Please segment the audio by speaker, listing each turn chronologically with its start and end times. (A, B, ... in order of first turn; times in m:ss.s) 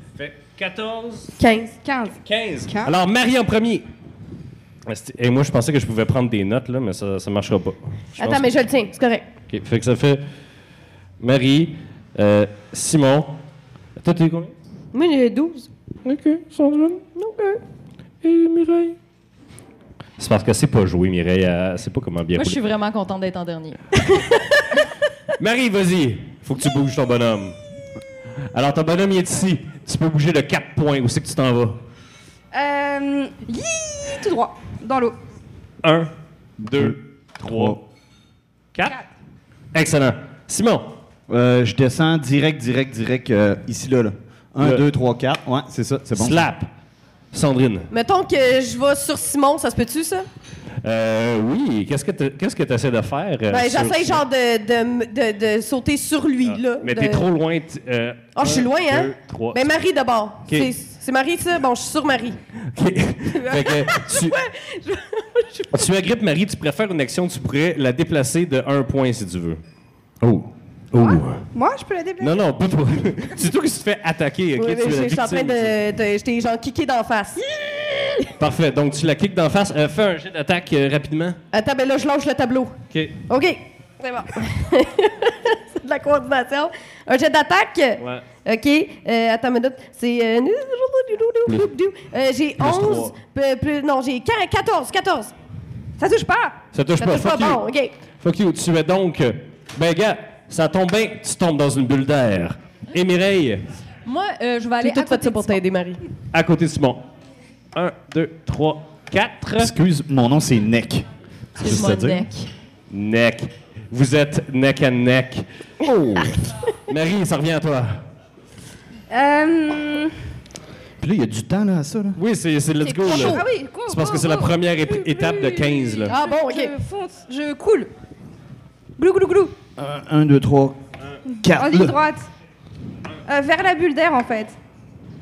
0:00.2-0:01.4 A
0:01.4-0:01.8 B
0:01.8-0:03.0 C
0:02.2-0:03.8 A
0:04.9-0:08.5 A
0:08.2-0:09.2 B
0:09.5-0:10.2 A
0:11.2-0:13.4 A
0:14.0-0:14.5 A
0:14.9-0:15.7 B
0:16.0-0:17.0 A
0:17.2-0:17.6 B
0:18.2-0:19.0 A
0:20.2-0:22.6 A
0:22.4-0:24.0 D
0:25.4-0:27.6 A
0:28.5-0:31.8 A
0:32.5-0:35.2 C
0:35.8-0:37.8 A
0:36.7-0:37.8 E
0:39.7-0:41.0 A
0:41.3-0:46.5 E
0:46.2-0:46.7 A
0:47.3-0:47.9 A
0:47.9-0:50.3 B
0:50.8-0:54.2 A
0:53.5-0:57.3 B
0:56.4-0:59.7 A
0:58.4-1:02.4 B
1:02.7-1:04.4 A
1:03.3-1:05.9 B
1:05.7-1:09.6 A
1:10.2-1:10.5 E
1:10.9-1:11.5 A
1:11.5-1:12.4 C
1:12.2-1:15.8 A
1:14.6-1:18.3 B
1:18.4-1:21.4 A
1:21.5-1:35.3 B
1:22.9-1:23.2 A
1:28.0-1:28.2 A
1:32.6-1:33.2 A
1:36.0-1:36.6 C
1:36.7-1:37.6 A
1:37.0-1:37.9 B
1:38.2-1:43.6 A
1:44.0-1:45.6 D
1:44.8-1:46.1 B
1:46.3-1:47.1 A
1:47.7-1:49.7 A
1:49.6-1:51.1 E
1:51.6-1:52.3 E
1:51.6-1:52.5 D
1:51.7-1:52.1 B
1:52.9-1:58.0 A
1:59.1-2:00.1 C
2:01.0-2:02.2 E
2:02.2-2:06.2 A
2:02.8-2:07.9 C
2:06.1-2:06.8 B
2:09.0-2:09.6 C
2:09.8-2:10.8 E
2:11.4-2:12.0 E
2:11.4-2:12.3 C
2:13.3-2:14.6 C